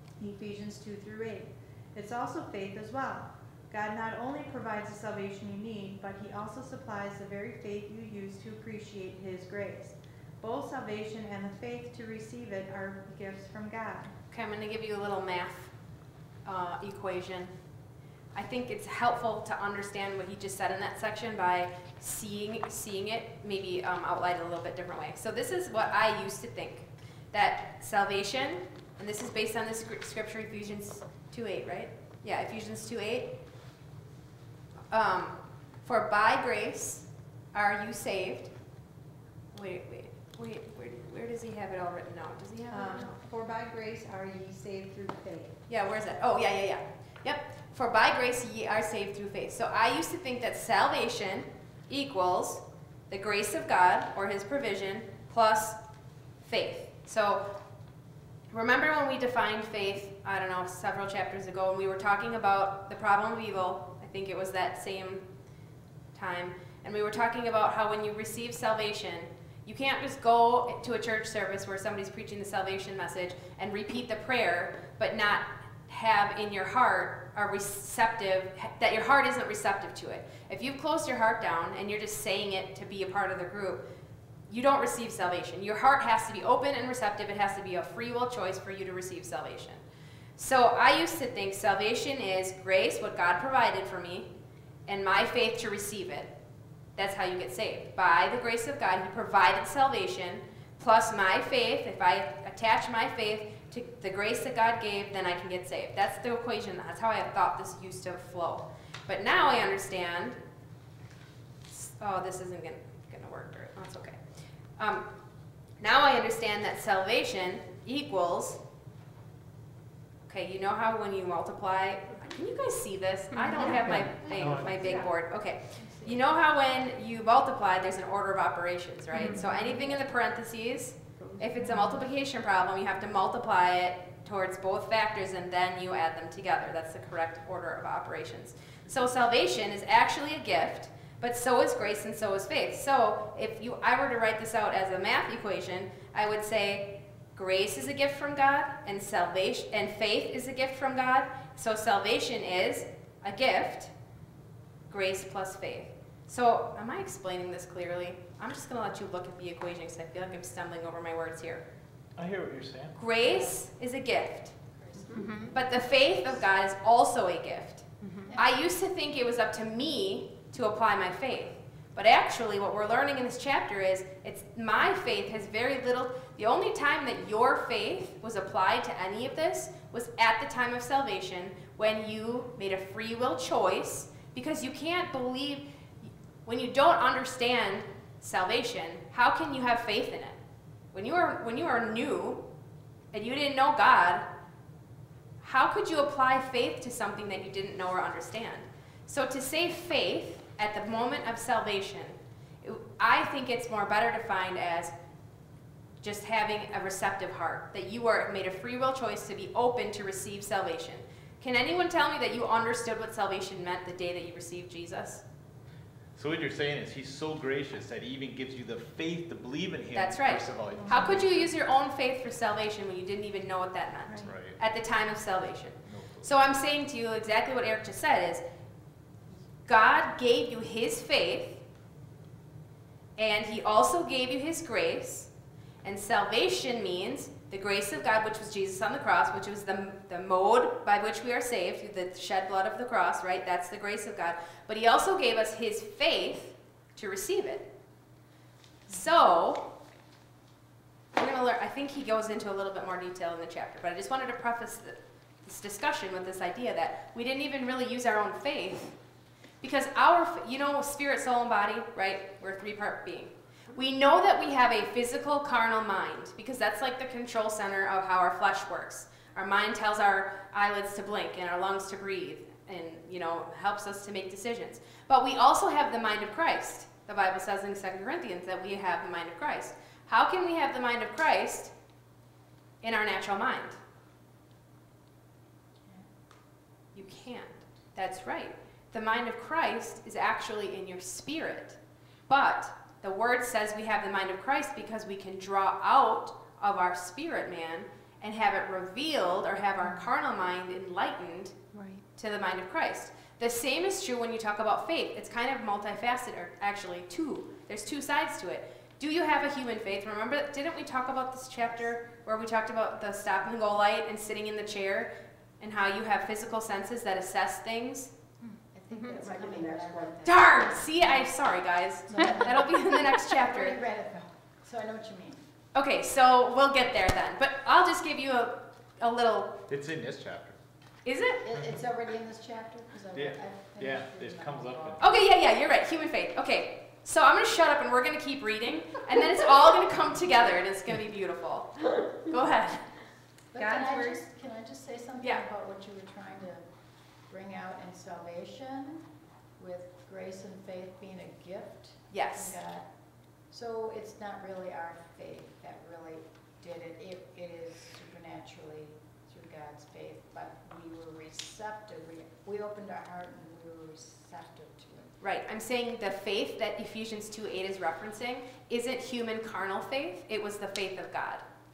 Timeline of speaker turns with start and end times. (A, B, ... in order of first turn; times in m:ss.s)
0:00.2-0:14.1 A
0:14.3-0:15.7 B
0:16.4-0:17.5 B
0:18.4-0:33.4 B
0:34.9-0:38.5 B
0:39.5-0:43.1 B
0:42.7-0:45.6 A
0:45.7-0:55.8 B
0:56.4-0:57.6 B
0:58.5-1:05.3 B
1:06.1-1:23.8 B
1:24.5-1:29.8 B
1:30.4-1:34.3 B
1:34.9-1:36.3 B
1:37.0-1:50.4 B
1:51.7-1:54.2 B
1:54.8-1:55.1 B
1:55.8-1:58.6 B
2:00.3-2:33.9 B
2:04.2-2:05.0 C
2:04.4-2:04.7 D
2:05.8-2:06.2 C
2:09.2-2:09.4 E
2:09.3-2:09.8 C
2:34.9-2:41.6 B
2:42.2-2:43.0 D
2:43.0-2:44.6 B
2:44.8-2:46.0 C
2:45.1-2:45.5 E
2:45.5-3:05.7 B
2:48.0-2:48.4 E
2:48.2-2:48.6 C
3:06.4-3:10.4 B
3:10.9-3:12.4 B
3:13.1-3:14.3 B
3:15.4-3:24.9 B
3:26.0-3:35.2 B
3:36.2-3:41.5 D
3:40.0-3:48.4 B
3:40.8-3:41.2 C
3:44.2-3:44.6 D
3:45.9-3:46.4 D
3:49.7-3:51.6 B
3:53.2-3:55.3 B
3:55.8-4:07.7 B
4:08.9-4:09.7 B
4:11.1-4:19.0 B
4:19.6-4:41.7 B
4:42.8-4:43.8 B
4:47.0-4:51.8 B
4:52.3-5:01.6 B
5:01.7-5:02.0 E
5:02.1-5:18.1 B
5:18.4-5:21.3 C
5:18.9-5:19.7 E
5:20.2-5:23.8 B
5:22.1-5:25.4 C
5:25.8-5:29.6 B
5:29.7-5:30.6 D
5:31.1-5:31.4 B
5:31.4-5:35.1 C
5:33.1-5:35.0 D
5:35.0-5:42.9 B
5:43.5-5:46.7 C
5:43.6-5:44.2 A
5:45.2-5:45.4 B
5:47.3-5:49.1 C
5:49.6-5:52.9 C
5:52.1-5:52.6 B
5:53.5-6:05.2 C
6:05.2-6:11.4 B